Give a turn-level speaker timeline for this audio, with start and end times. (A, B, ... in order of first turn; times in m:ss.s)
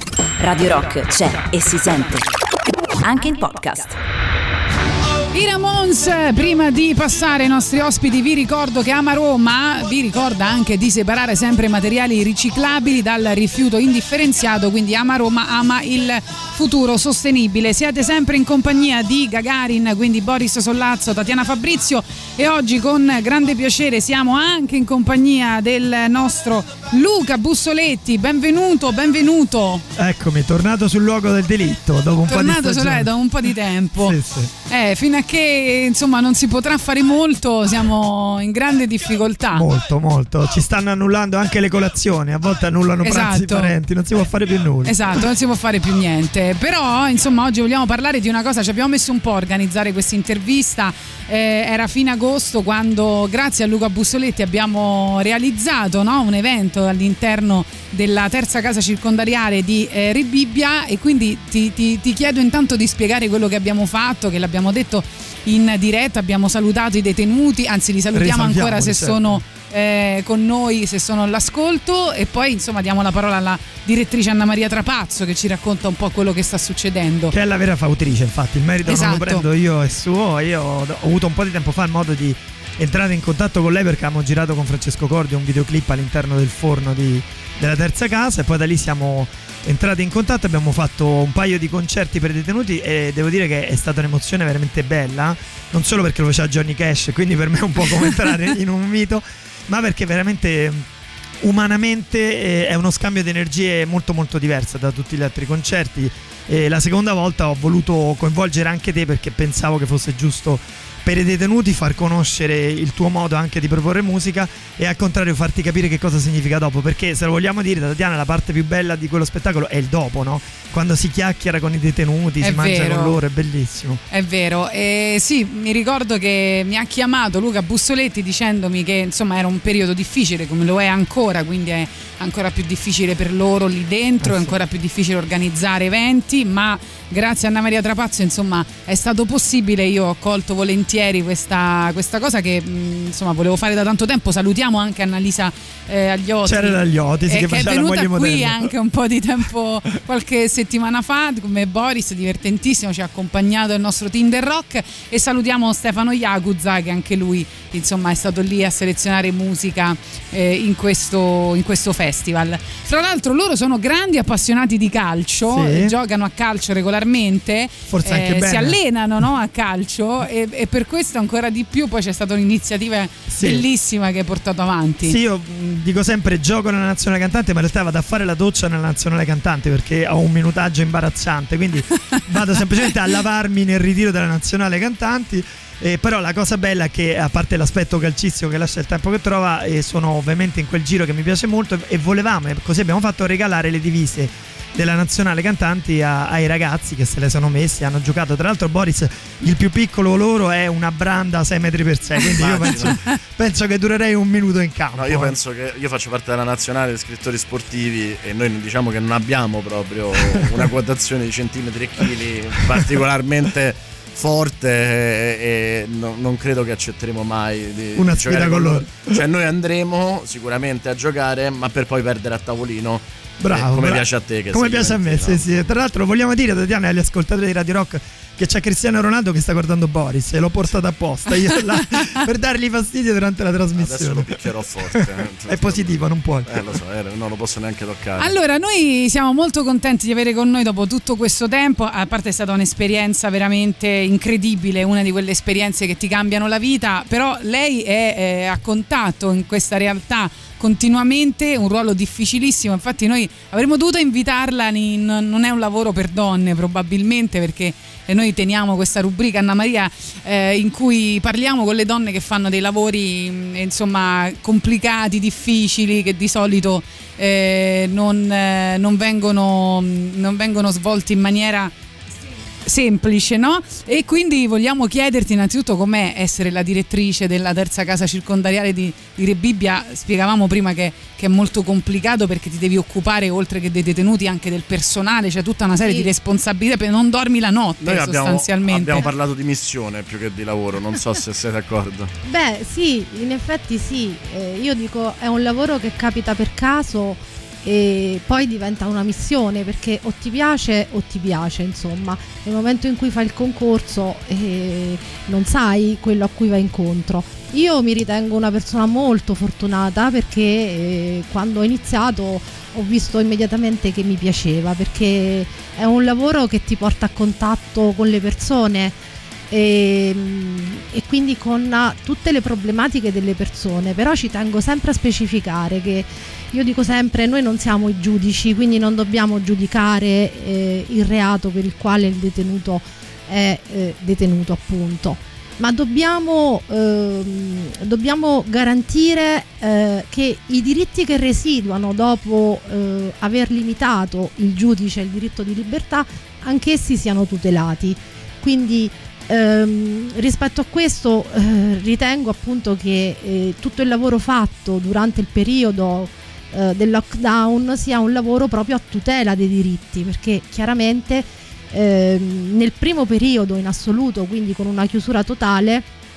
0:00.4-0:02.3 A
0:03.0-0:04.0 A
0:05.3-0:29.8 B
0:30.0-0:34.5 C
0:32.3-0:39.7 B
0:39.5-0:45.0 C
0:43.0-0:43.8 B
0:44.8-1:17.4 B
1:08.1-1:09.4 C
1:17.3-1:40.9 C
1:18.9-1:19.5 B
1:41.4-2:04.0 C
2:02.4-2:03.2 B
2:04.1-2:55.2 B
2:14.2-2:14.6 C
2:26.4-2:28.7 C
2:45.5-2:46.0 C
2:47.9-2:48.8 C
2:53.3-2:53.6 C
2:55.0-3:25.4 C
3:22.3-3:23.0 D
3:25.0-3:45.8 D
3:38.0-3:39.2 C
3:43.4-3:54.4 C
3:53.8-3:58.3 D
3:54.9-3:56.7 C
3:58.2-4:31.7 B
4:32.6-4:49.1 B
4:45.8-4:46.1 E
4:47.8-4:52.1 D
4:52.2-5:19.0 E
5:19.5-6:05.9 E